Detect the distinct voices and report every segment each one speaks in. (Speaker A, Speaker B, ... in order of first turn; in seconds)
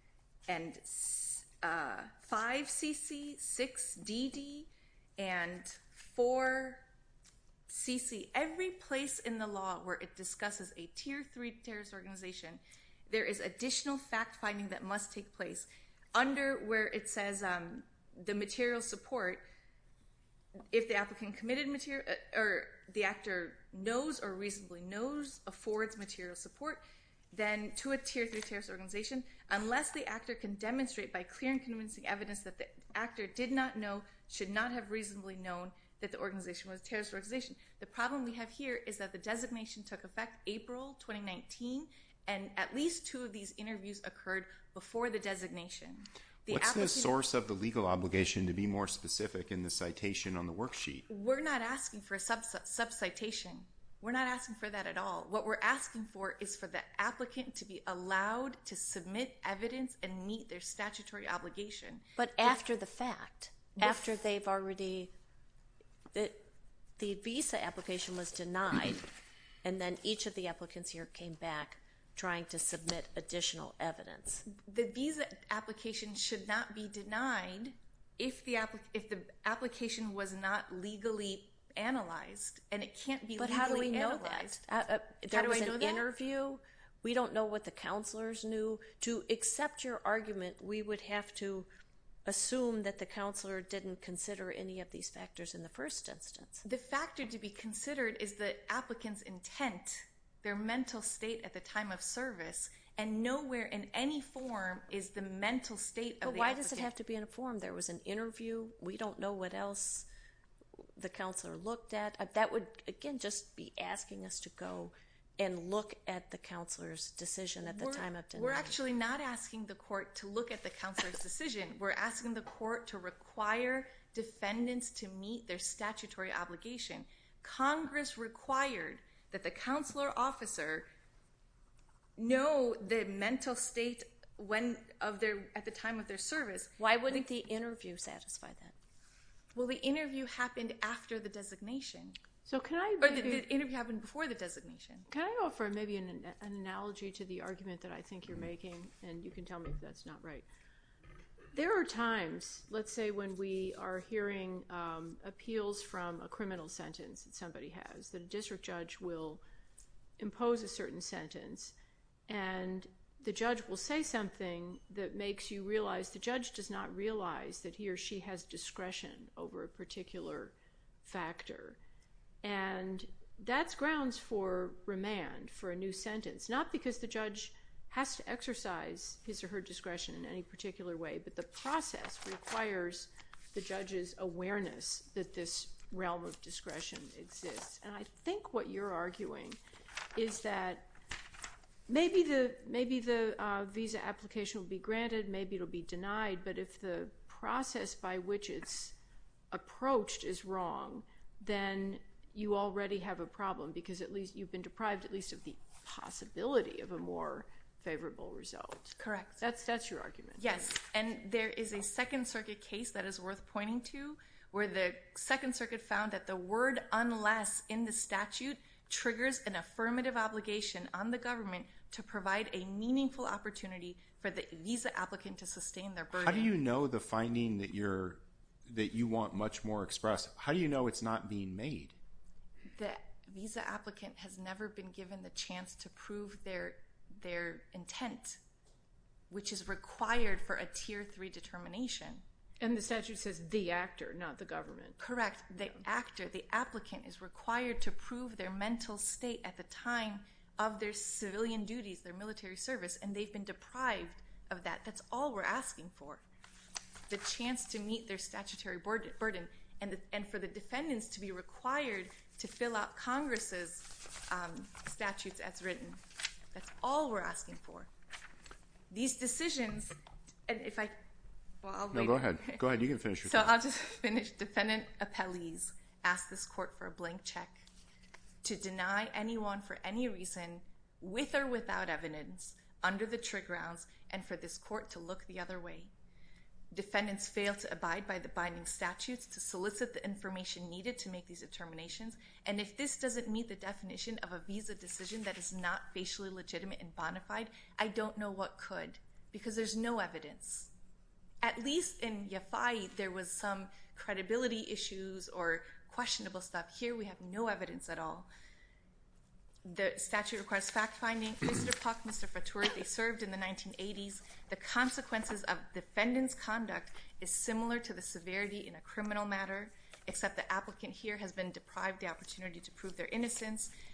Speaker A: 0.5-6.8, 7.7-19.4, 20.7-47.1, 51.1-62.0, 74.5-84.6, 85.3-86.1, 96.6-106.9, 117.6-130.9, 132.2-137.2, 139.5-142.2, 143.0-145.1, 209.0-209.4, 210.4-226.5, 232.7-238.4, 239.3-242.2, 245.0-256.2, 257.1-267.9, 268.9-271.0, 271.6-272.6, 273.2-277.6, 278.4-285.9, 286.7-300.7, 301.4-308.3, 309.6-323.7
Speaker B: 46.5-51.0, 226.1-232.0, 271.9-273.5
Speaker C: 62.2-65.1, 66.1-66.4, 67.0-69.0, 69.6-74.4, 83.4-91.7, 92.2-96.6, 106.2-110.1, 111.0-118.8, 136.8-138.7
Speaker D: 142.4-143.4, 145.1-150.4, 151.5-159.4, 160.2-161.7, 162.3-171.8, 172.4-189.6, 190.1-190.9, 191.9-198.9, 199.5-210.7, 242.6-245.0